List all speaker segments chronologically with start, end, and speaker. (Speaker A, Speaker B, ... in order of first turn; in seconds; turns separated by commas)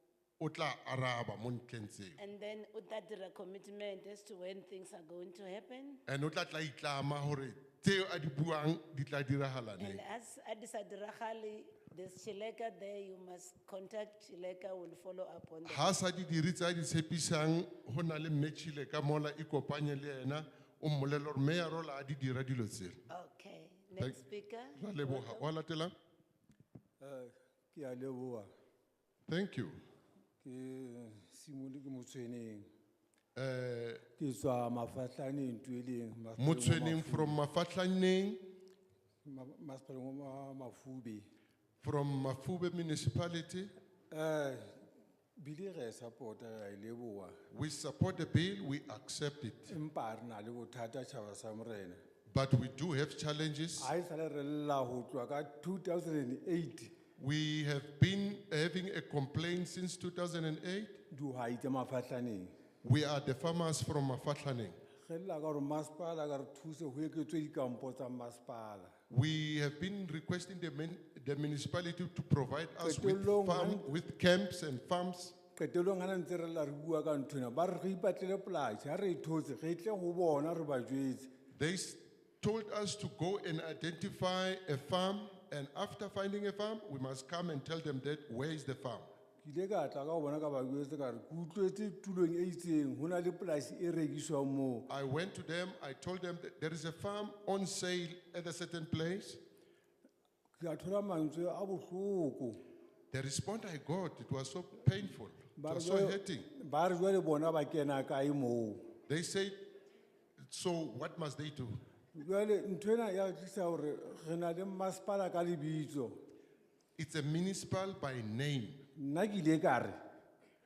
Speaker A: 0.4-2.2, Speaker B: 2.2-6.0, Speaker A: 6.1-10.0, Speaker B: 9.8-16.0, Speaker A: 15.7-23.0, Speaker B: 23.1-25.5, Speaker A: 24.8-25.9, Speaker C: 27.0-28.5, Speaker A: 29.3-29.8, Speaker C: 30.4-32.7, Speaker A: 33.4-34.0, Speaker C: 34.2-37.4, Speaker A: 36.4-38.5, Speaker C: 39.2-41.3, Speaker A: 41.8-43.7, Speaker C: 44.1-44.8, Speaker C: 45.4-47.4, Speaker A: 47.5-49.8, Speaker C: 49.7-52.0, Speaker A: 52.3-53.9, Speaker C: 53.8-56.9, Speaker A: 57.2-61.0, Speaker C: 61.1-62.5, Speaker A: 62.8-64.8, Speaker C: 65.0-68.9, Speaker A: 69.1-75.4, Speaker C: 72.8-73.9, Speaker C: 75.6-81.3, Speaker A: 81.5-89.1, Speaker C: 89.4-94.9, Speaker A: 94.9-99.4, Speaker C: 100.6-102.6, Speaker A: 103.1-106.5, Speaker C: 105.6-108.9, Speaker A: 109.1-109.6, Speaker A: 110.5-111.8, Speaker C: 112.1-116.2, Speaker A: 117.0-118.8, Speaker C: 119.0-120.0